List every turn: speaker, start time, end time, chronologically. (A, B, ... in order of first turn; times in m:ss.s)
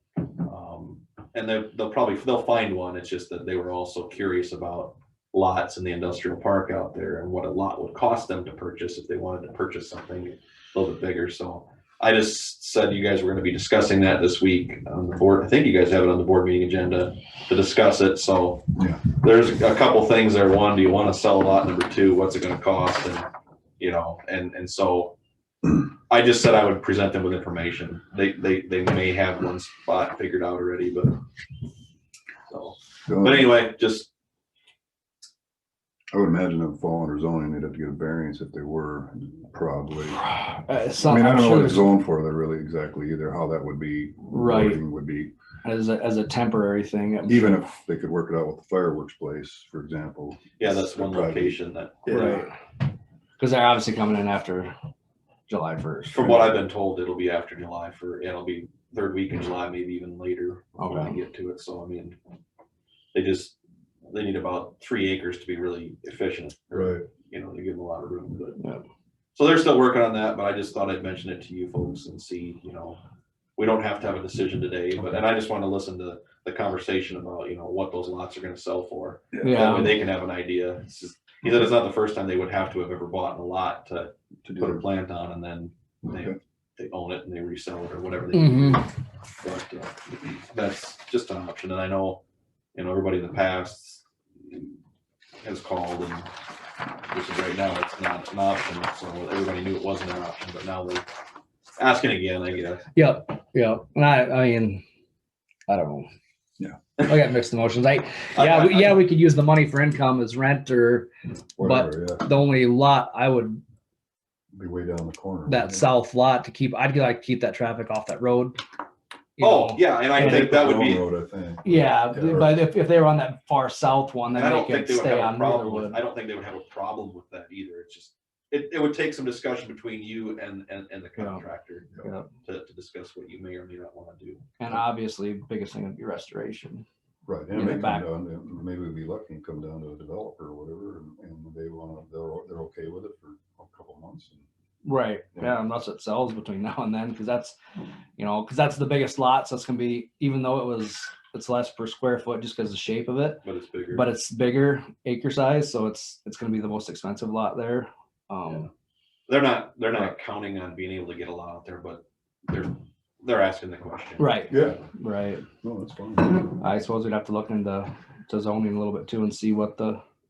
0:00.4-0:23.3 A
0:23.8-0:25.2 A
0:26.1-0:31.2 A
0:32.5-0:34.1 A
0:33.0-0:33.5 B
0:36.1-0:40.2 B
0:40.2-0:41.9 C
0:41.0-0:45.3 B
0:44.3-0:44.8 C
0:45.6-0:47.6 C
0:47.3-0:52.4 B
0:50.6-0:52.4 A
0:52.1-0:52.5 C
0:53.4-0:54.7 C
0:55.5-0:56.3 C
0:56.1-1:02.2 A
0:56.2-0:56.6 B
1:00.8-1:01.1 C
1:03.1-1:03.6 A
1:04.1-1:08.6 A
1:06.7-1:07.0 B
1:09.4-1:13.0 A
1:13.6-1:32.2 A
1:19.3-1:19.6 B
1:19.4-1:20.0 C
1:24.4-1:24.8 B
1:26.1-1:26.4 B
1:28.3-1:28.8 C
1:32.8-1:34.8 A
1:35.4-1:36.3 A
1:37.1-1:41.0 A
1:41.8-1:42.9 A
1:43.0-1:44.8 C
1:45.7-1:46.1 C
1:47.0-1:53.6 C
1:48.4-1:49.1 A
1:51.6-1:52.3 B
1:54.5-1:55.9 B
1:55.5-1:58.6 C
1:59.4-2:00.8 C
1:59.4-2:01.0 A
2:00.2-2:02.6 B
2:01.6-2:06.0 C
2:04.3-2:11.9 A
2:11.2-2:11.4 C
2:12.0-2:12.3 C
2:12.4-2:14.5 A
2:14.6-2:16.8 C
2:17.3-2:24.4 B
2:17.5-2:18.1 C
2:24.8-2:27.6 C
2:28.2-2:38.7 C
2:33.4-2:34.1 A
2:39.3-2:44.8 A
2:44.2-2:45.4 C
2:44.5-2:44.8 B
2:45.6-2:46.6 B
2:46.6-2:50.0 C